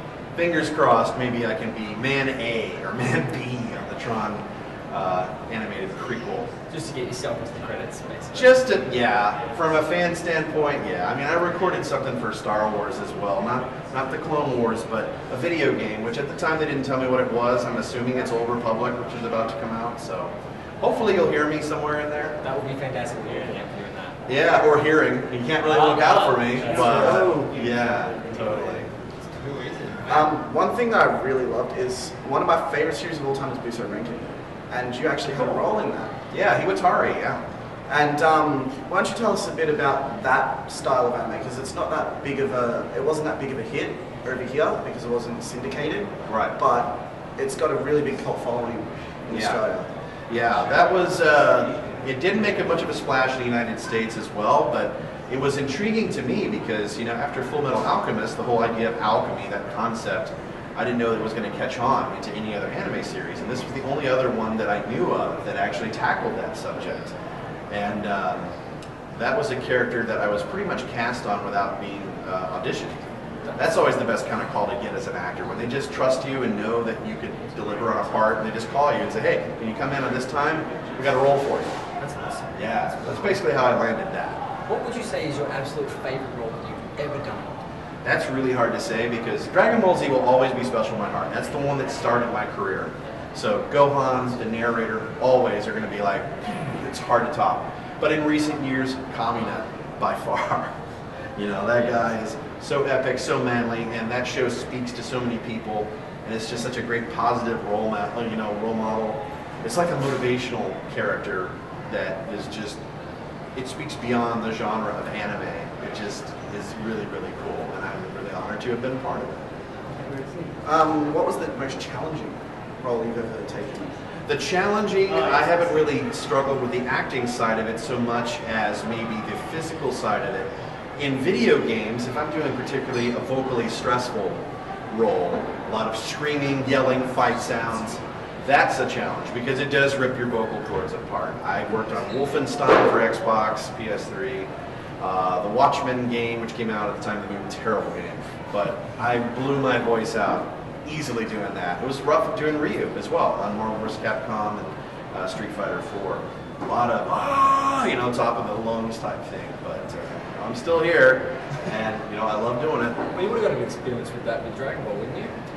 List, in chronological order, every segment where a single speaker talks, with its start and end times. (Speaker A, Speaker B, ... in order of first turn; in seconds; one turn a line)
Speaker A: 0.3-6.5
Speaker B: 6.7-8.6
Speaker A: 8.3-22.4
Speaker B: 22.4-24.2
Speaker A: 24.3-28.9
Speaker B: 25.6-27.5
Speaker C: 26.7-27.5
Speaker B: 29.2-30.3
Speaker C: 30.1-36.1
Speaker A: 35.3-35.6
Speaker A: 36.3-37.4
Speaker C: 37.9-49.9
Speaker A: 46.3-46.6
Speaker A: 49.3-49.6
Speaker A: 50.3-67.1
Speaker A: 67.7-68.5
Speaker A: 69.1-73.0
Speaker A: 73.5-81.8
Speaker B: 82.0-83.3
Speaker A: 82.5-84.4
Speaker B: 84.7-87.6
Speaker A: 88.0-100.7
Speaker A: 101.3-112.8
Speaker A: 113.5-119.4
Speaker B: 120.0-120.5
Speaker C: 120.6-124.0
Speaker A: 124.2-163.1
Speaker B: 163.1-165.3